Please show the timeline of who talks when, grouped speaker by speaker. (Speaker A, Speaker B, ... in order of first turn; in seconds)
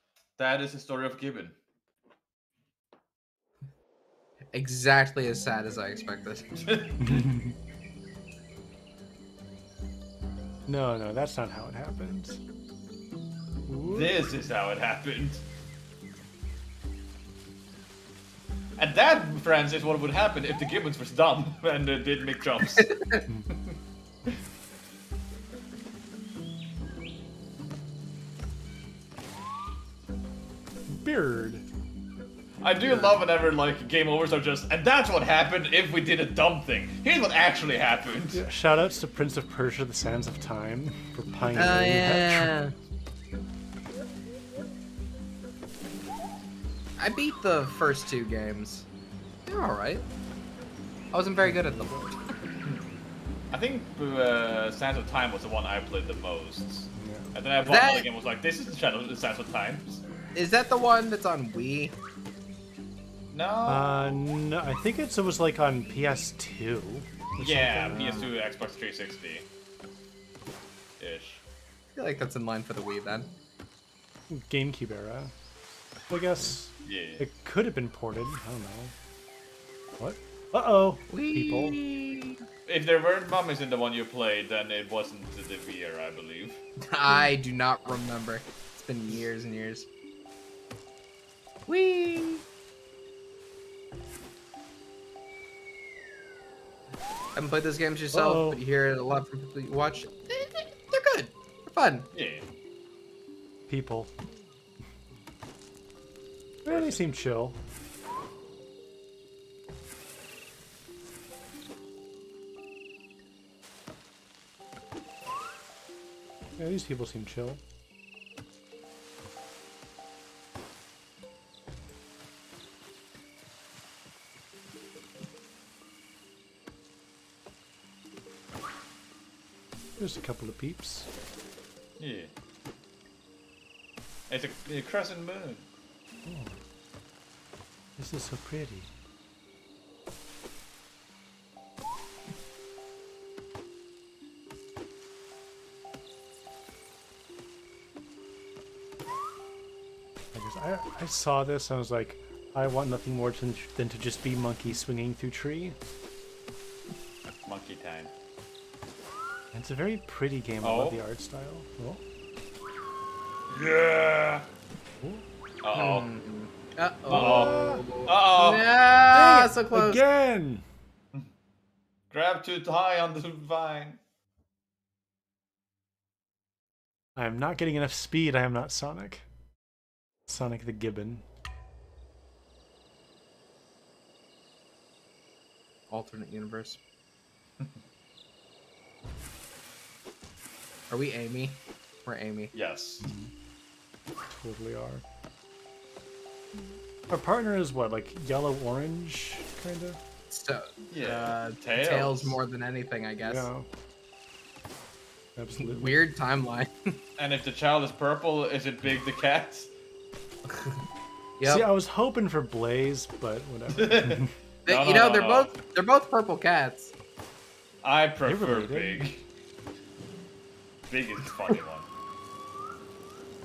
Speaker A: 0.4-1.6, 6.7-7.2, 13.9-15.4, 18.8-22.9, 32.6-38.4, 53.5-60.0, 63.3-64.1, 67.4-69.5, 71.0-71.4, 76.8-77.2, 82.7-86.6, 102.1-102.4, 106.7-107.0, 132.0-132.3, 134.3-135.7, 157.5-158.1, 160.6-161.0, 163.5-164.5, 165.6-166.1, 167.1-168.8, 172.1-174.0, 192.5-193.1, 200.9-202.4, 207.2-209.7, 213.7-215.6, 217.8-219.2, 220.9-221.9
Speaker B: 4.5-6.5, 22.9-23.2, 32.8-33.2, 41.5-42.7, 47.0-48.9, 49.5-50.1, 51.1-52.1, 57.6-58.1, 60.4-62.0, 67.9-68.2, 72.0-73.3, 81.1-82.4, 86.9-89.9, 91.7-92.4, 97.3-102.1, 165.7-170.0, 185.9-186.8, 190.9-192.5, 200.3-203.5, 205.6-207.0, 210.5-210.8, 211.4-211.7, 214.7-216.9
Speaker C: 7.0-7.6, 10.7-12.4, 13.7-14.2, 30.9-31.6, 38.3-42.6, 51.4-52.2, 57.0-57.3, 63.7-68.3, 74.3-75.3, 76.1-78.9, 80.0-81.8, 98.1-98.6, 103.7-104.1, 106.7-107.6, 116.6-117.6, 130.0-131.1, 136.2-136.6, 138.0-138.9, 150.3-155.8, 159.5-162.0, 167.1-167.8, 169.1-170.7, 177.2-179.2, 180.3-181.2, 193.0-193.3, 194.3-195.0, 197.1-200.0, 203.2-203.7, 205.4-206.0, 211.4-214.3, 218.2-219.1